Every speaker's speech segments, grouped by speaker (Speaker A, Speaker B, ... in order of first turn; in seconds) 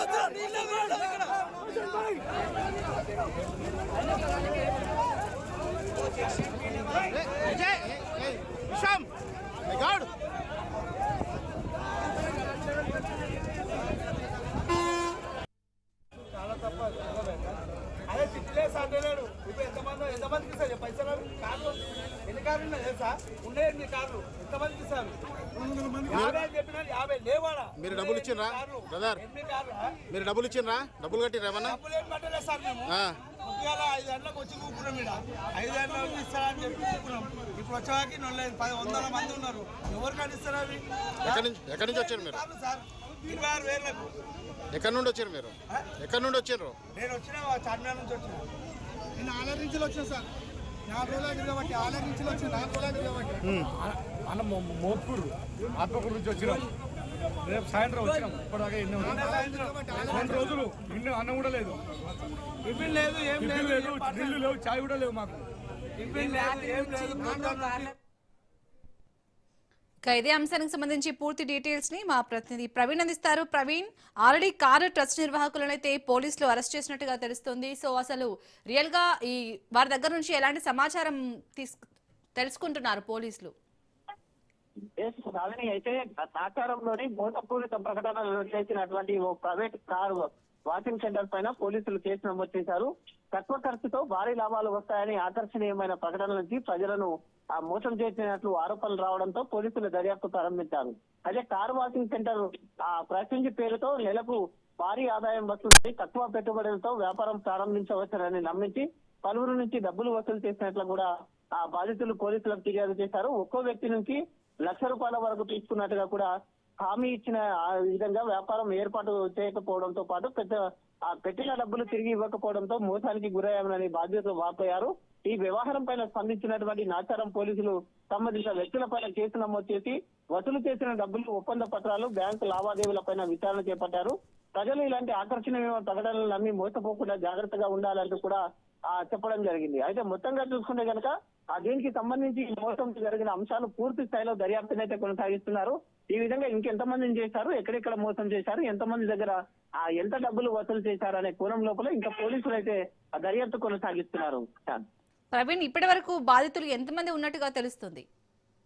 Speaker A: 7.3-9.1, 9.7-10.1, 27.8-29.2, 30.1-31.8, 32.9-33.2, 41.2-42.4, 44.7-46.8
Speaker B: 16.3-30.0, 31.6-44.1, 46.9-48.4, 49.2-50.3, 50.9-53.4, 59.0-60.5, 62.6-64.5, 66.0-67.9
Speaker C: 53.7-56.7, 57.4-62.3, 63.4-65.4
Speaker D: 70.0-78.1, 78.7-79.2, 79.7-81.8, 82.4-83.5, 155.3-158.0
Speaker E: 85.0-116.3, 116.8-154.8